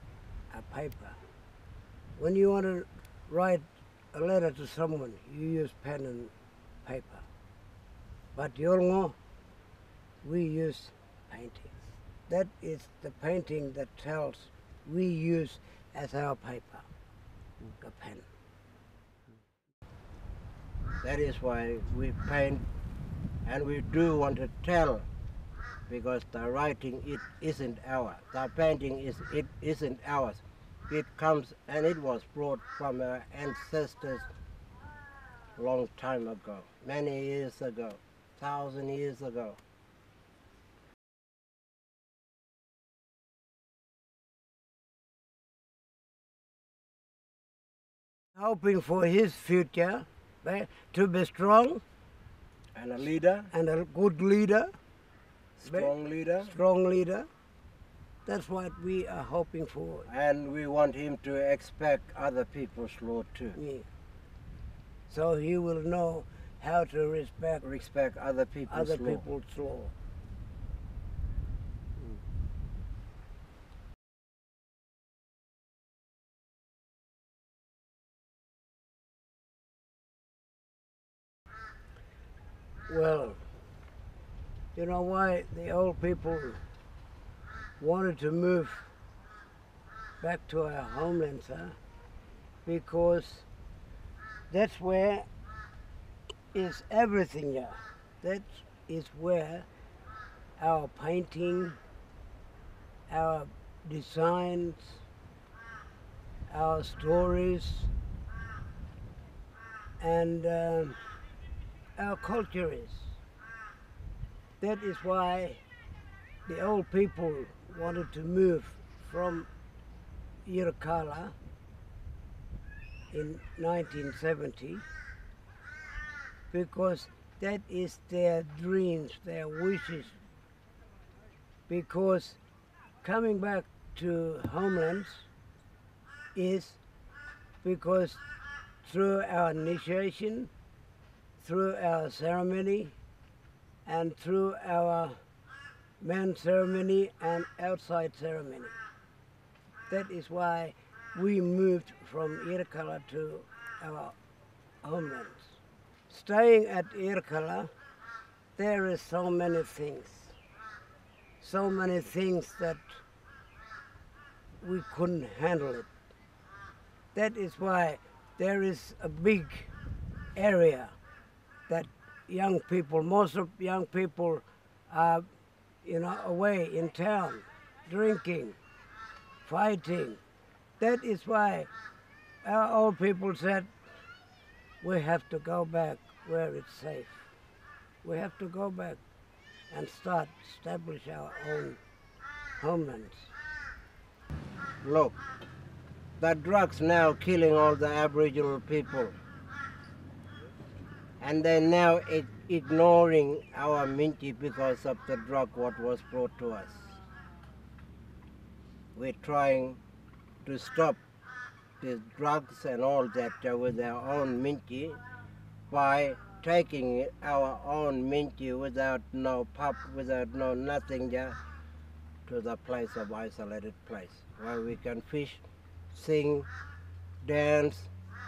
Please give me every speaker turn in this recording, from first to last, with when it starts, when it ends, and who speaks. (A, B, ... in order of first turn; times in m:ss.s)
0:00.5-0:01.2 A
0:02.2-0:06.3 A
0:06.8-0:07.2 A
0:08.3-0:09.2 A
0:10.2-0:16.9 A
0:17.8-0:18.2 A
0:21.0-0:22.6 B
0:23.4-0:25.0 B
0:25.9-0:34.3 B
0:35.6-0:39.6 B
0:48.4-0:51.8 A
0:52.7-0:53.5 B
0:53.5-0:54.7 A
0:55.6-0:56.6 B
0:55.7-0:57.3 A
0:58.2-1:00.1 A
1:00.1-1:03.6 B
1:03.5-1:03.9 A
1:05.1-1:07.6 A
1:07.6-1:09.2 B
1:08.7-1:09.9 A
1:22.9-1:23.4 A
1:24.7-1:26.6 A
1:27.8-1:28.9 A
1:30.2-1:31.8 A
1:32.6-1:33.5 A
1:34.5-1:35.3 A
1:36.5-1:39.7 A
1:40.6-1:41.8 A
1:43.1-1:45.0 A
1:46.5-1:47.9 A
1:50.0-1:51.0 A
1:52.0-1:53.2 A
1:54.6-1:55.6 A
1:56.4-1:59.5 A
2:00.4-2:01.3 A
2:03.1-2:04.8 A
2:06.5-2:10.2 A
2:11.7-2:12.4 A
2:13.0-2:15.3 A
2:16.3-2:16.8 A
2:17.6-2:18.2 A
2:18.8-2:20.5 A
2:21.4-2:23.0 A
2:23.8-2:25.2 A
2:26.0-2:28.8 A
2:29.9-2:34.1 A
2:34.8-2:35.6 A
2:36.1-2:37.7 A
2:38.6-2:40.4 A
2:41.4-2:43.0 A
2:44.6-2:45.9 A
2:47.1-2:49.7 A
2:50.3-2:50.9 A
2:51.7-2:55.3 A
2:55.8-2:58.6 A
2:59.4-3:00.2 A
3:00.8-3:01.7 A
3:02.4-3:03.7 A
3:04.8-3:07.3 A
3:08.0-3:09.0 A
3:09.7-3:11.8 A
3:12.6-3:13.3 A
3:14.8-3:15.2 B
3:16.2-3:19.2 B
3:21.2-3:27.0 B
3:28.9-3:29.8 B
3:30.4-3:31.0 B
3:31.8-3:35.0 B
3:35.7-3:41.4 B
3:42.3-3:45.4 B
3:45.9-3:46.5 B
3:47.2-3:47.9 B